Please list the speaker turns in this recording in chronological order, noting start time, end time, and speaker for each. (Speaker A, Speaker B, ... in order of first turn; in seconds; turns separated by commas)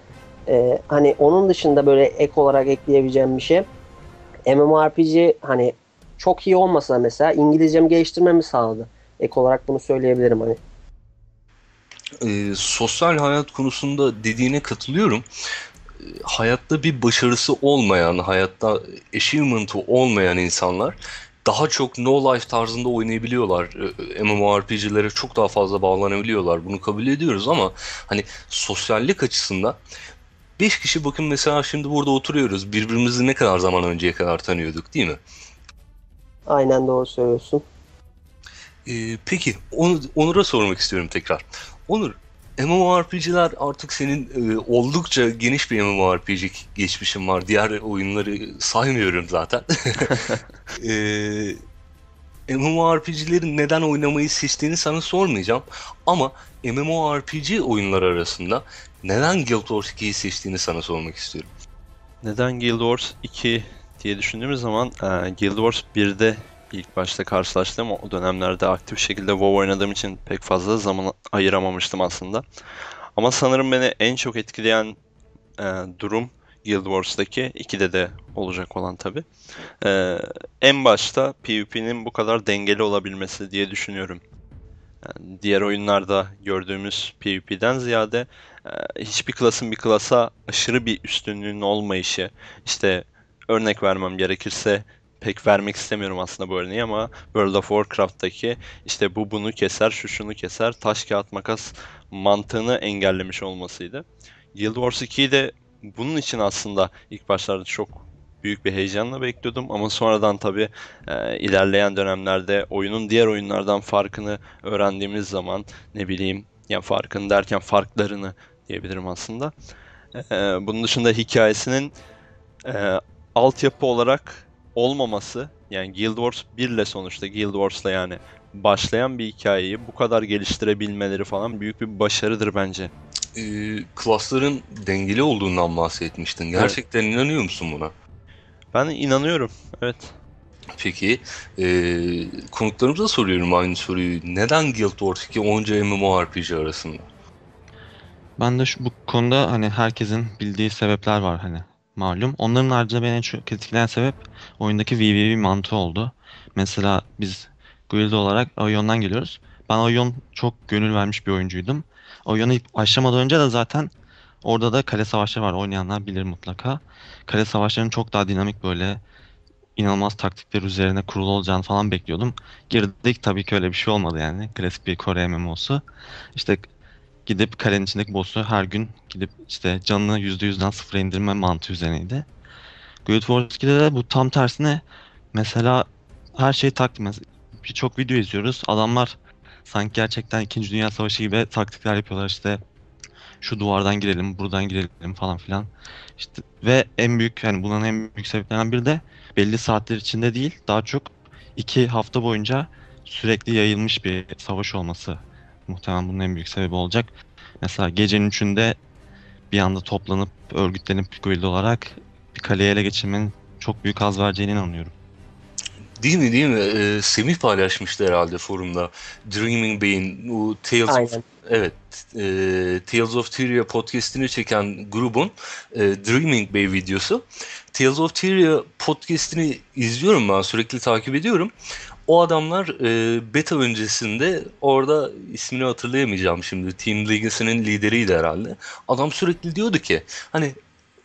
Speaker A: 0.5-3.7, Speaker A: 4.5-10.6, Speaker B: 12.2-15.2, Speaker B: 16.2-29.8, Speaker B: 30.6-35.2, Speaker A: 36.5-37.6, Speaker B: 38.9-50.1, Speaker C: 50.1-50.4, Speaker B: 50.8-51.5, Speaker B: 52.5-61.5, Speaker C: 62.2-72.4, Speaker C: 73.2-75.0, Speaker C: 75.6-79.2, Speaker C: 79.8-84.2, Speaker C: 85.0-119.5, Speaker C: 120.2-121.9, Speaker C: 122.7-132.9, Speaker B: 133.3-137.9, Speaker C: 138.7-140.1, Speaker B: 140.8-147.1, Speaker D: 148.4-163.9, Speaker D: 164.4-169.0, Speaker D: 169.8-175.8, Speaker D: 176.3-176.7, Speaker D: 177.2-182.3, Speaker D: 183.0-192.6, Speaker D: 193.4-207.1, Speaker D: 207.6-208.8, Speaker D: 209.5-214.9, Speaker B: 216.0-231.5, Speaker A: 220.9-221.2, Speaker B: 232.1-240.6